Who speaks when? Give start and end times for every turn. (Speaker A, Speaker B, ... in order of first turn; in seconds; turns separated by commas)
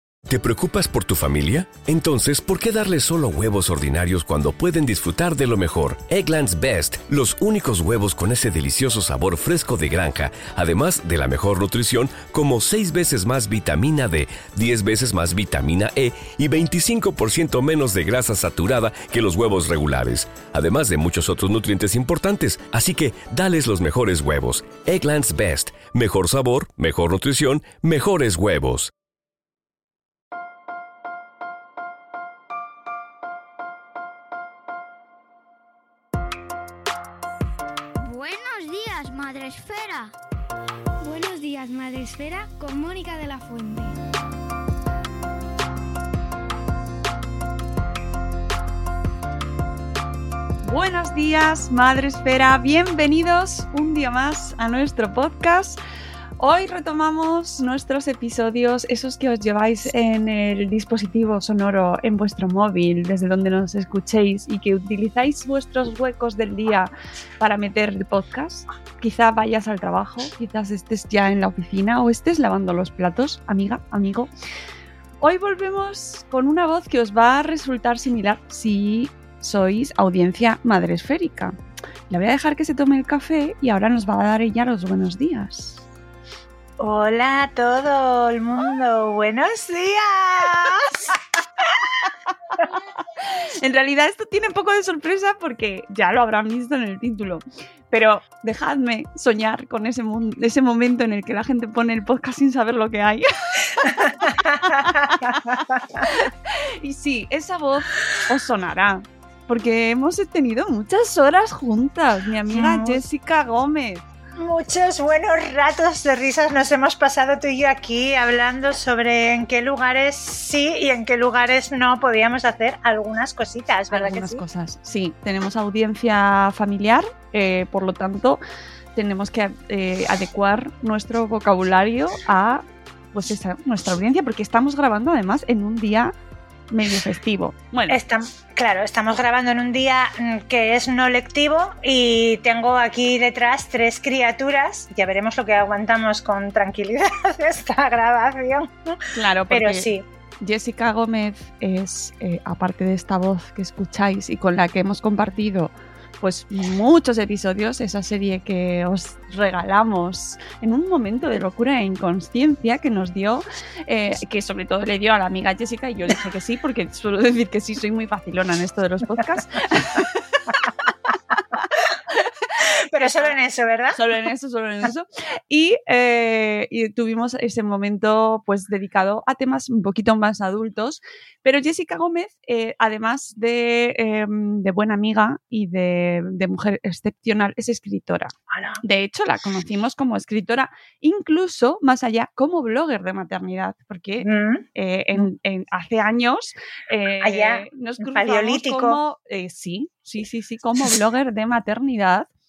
Speaker A: 0.3-28.9, Speaker B: 38.0-40.1, Speaker B: 41.0-43.9, Speaker C: 50.6-55.8, Speaker C: 56.4-74.3, Speaker C: 75.2-81.6, Speaker C: 82.1-85.8, Speaker D: 86.8-91.8, Speaker C: 93.5-114.1, Speaker D: 104.0-106.1, Speaker D: 112.5-113.0, Speaker D: 114.4-124.4, Speaker C: 123.9-128.4, Speaker C: 128.9-136.2, Speaker C: 136.7-138.0, Speaker D: 137.9-149.0, Speaker C: 149.1-149.9, Speaker D: 149.5-150.1, Speaker C: 150.4-170.6, Speaker D: 172.6-174.0, Speaker C: 173.9-202.3, Speaker D: 188.5-188.8, Speaker D: 194.2-194.7, Speaker D: 197.2-199.0